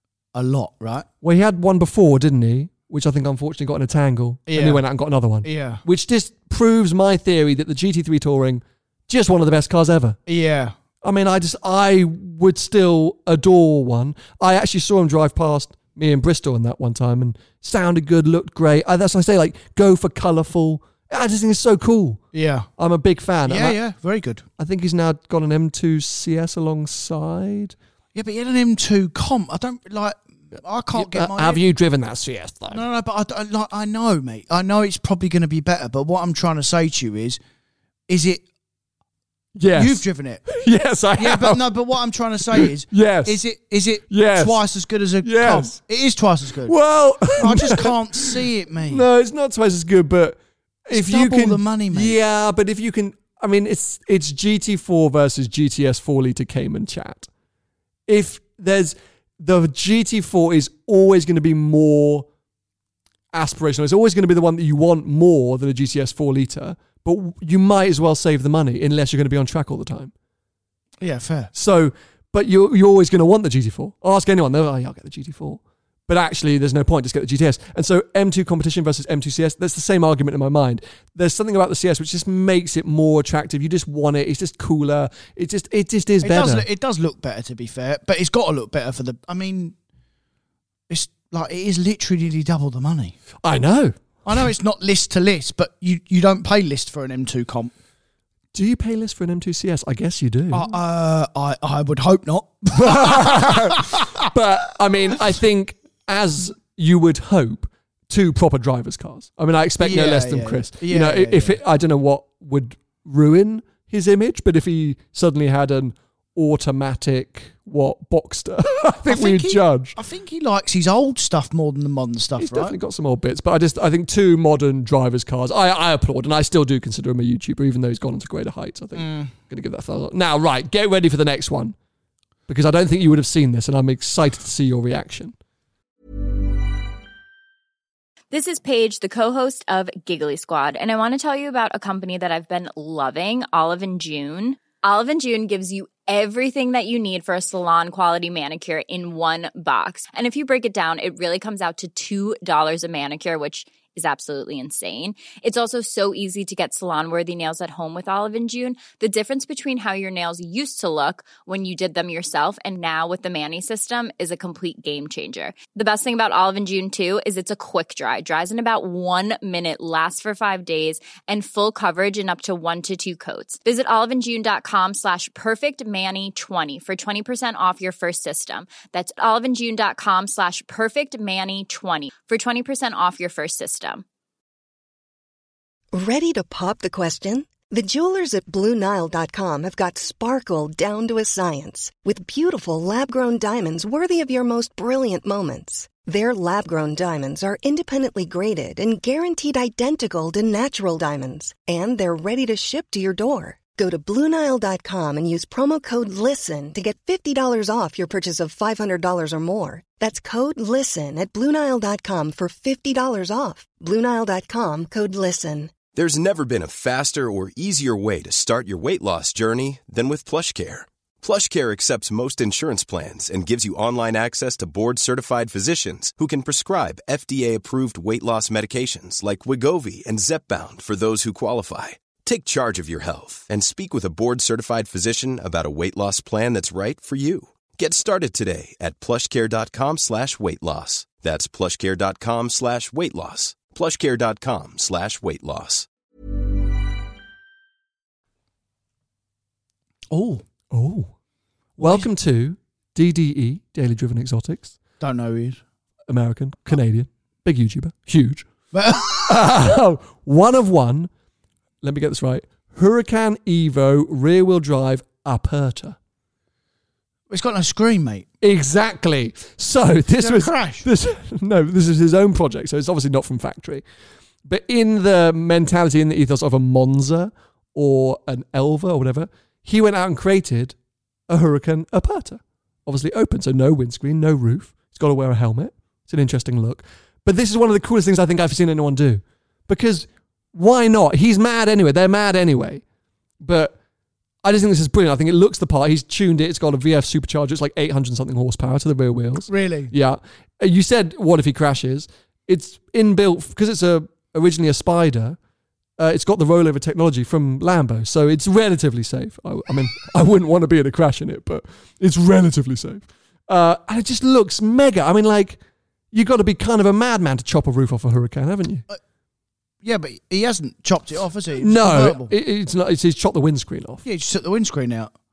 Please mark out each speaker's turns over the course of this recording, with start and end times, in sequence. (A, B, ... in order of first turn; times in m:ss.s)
0:00.3-0:01.1 A
0:01.2-0:10.2 B
0:04.5-0:04.8 A
0:05.4-0:05.8 A
0:10.3-0:10.7 A
0:11.0-0:22.2 B
0:22.3-0:22.7 A
0:22.8-0:23.8 B
0:23.5-0:24.4 A
0:24.6-0:27.8 B
0:28.2-0:31.6 A
0:31.0-0:32.8 B
0:32.7-0:37.4 A
0:38.1-0:38.4 A
0:39.6-0:41.7 B
0:39.7-0:40.4 A
0:41.2-0:46.8 A
0:42.5-0:43.4 B
0:44.1-0:44.6 B
0:45.2-0:45.8 B
0:46.6-0:57.3 B
0:47.3-0:49.0 A
0:50.9-0:52.2 A
0:58.1-1:02.3 B
1:03.3-1:10.1 B
1:11.0-1:11.5 A
1:11.5-1:26.7 B
1:26.2-1:29.8 A
1:30.9-1:33.2 A
1:33.4-1:34.0 B
1:34.3-1:37.7 A
1:38.5-1:40.7 B
1:40.5-1:44.1 A
1:42.8-2:00.0 B
1:49.8-1:51.6 A
1:59.1-2:02.8 A
2:02.4-2:11.8 B
2:09.0-2:09.3 A
2:12.5-2:15.4 B
2:18.3-3:04.0 C
3:05.9-3:35.8 D
3:35.9-4:05.9 E
4:10.1-4:10.4 A
4:10.7-4:11.1 B
4:11.8-4:12.1 A
4:11.8-4:14.8 B
4:15.0-4:15.6 A
4:16.1-4:18.5 B
4:18.7-4:19.5 A
4:19.3-4:21.1 B
4:21.8-4:26.0 B
4:27.3-4:28.3 A
4:28.4-4:33.8 B
4:30.2-4:30.8 A
4:34.4-4:40.8 B
4:41.3-4:52.8 B
4:53.4-4:53.8 B
4:54.4-5:05.4 B
4:59.5-4:59.9 A
5:06.0-5:15.6 B
5:16.1-5:18.8 B
5:19.8-5:22.3 A
5:21.6-5:24.0 B
5:24.0-5:25.1 A